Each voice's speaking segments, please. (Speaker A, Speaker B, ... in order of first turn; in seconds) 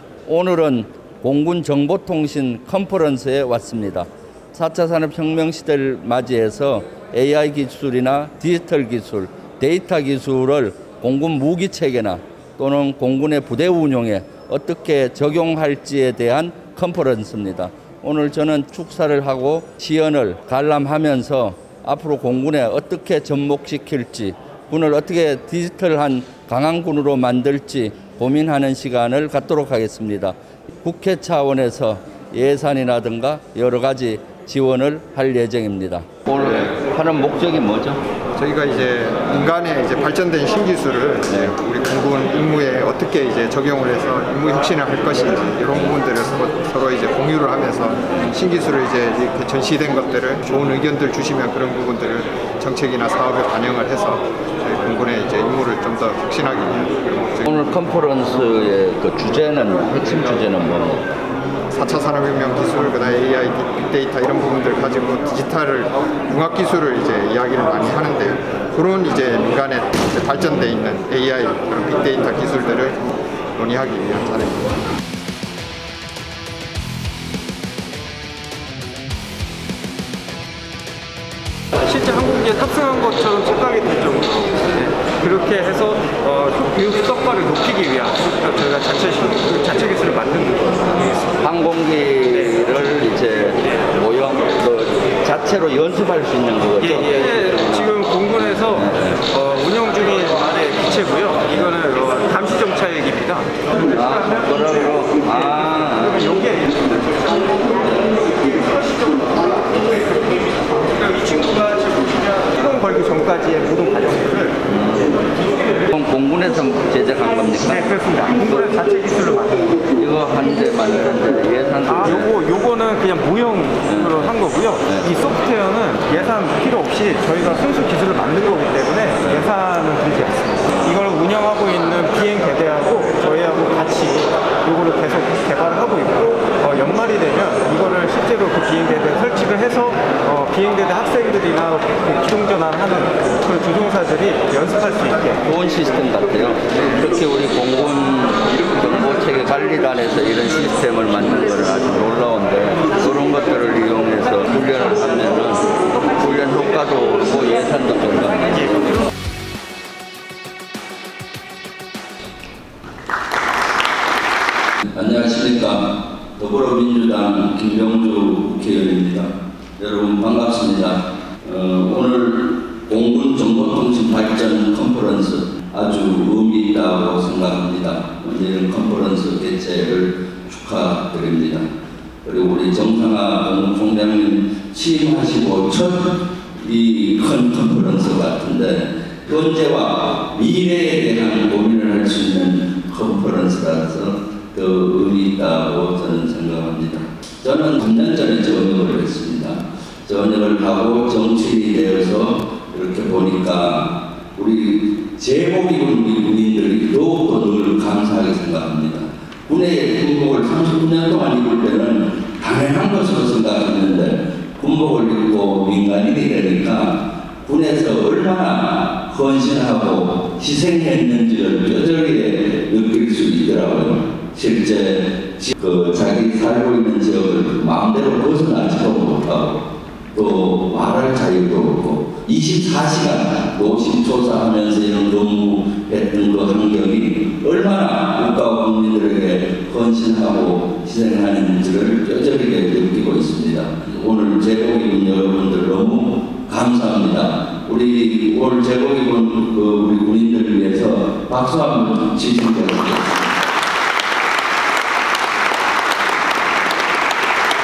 Speaker A: 0.3-38.0, 57.5-61.1, 91.4-98.0, 98.6-99.2, 103.8-106.4, 114.7-115.2, 115.7-118.0, 120.0-122.4, 123.8-125.1, 129.2-129.5, 145.4-159.0, 164.9-181.7, 182.2-229.6, 230.1-253.3
Speaker B: 38.4-57.5, 61.7-74.8
Speaker C: 81.8-91.3, 96.8-103.7, 104.2-104.5, 105.2-107.5, 108.0-114.6, 117.6-119.9, 121.9-145.4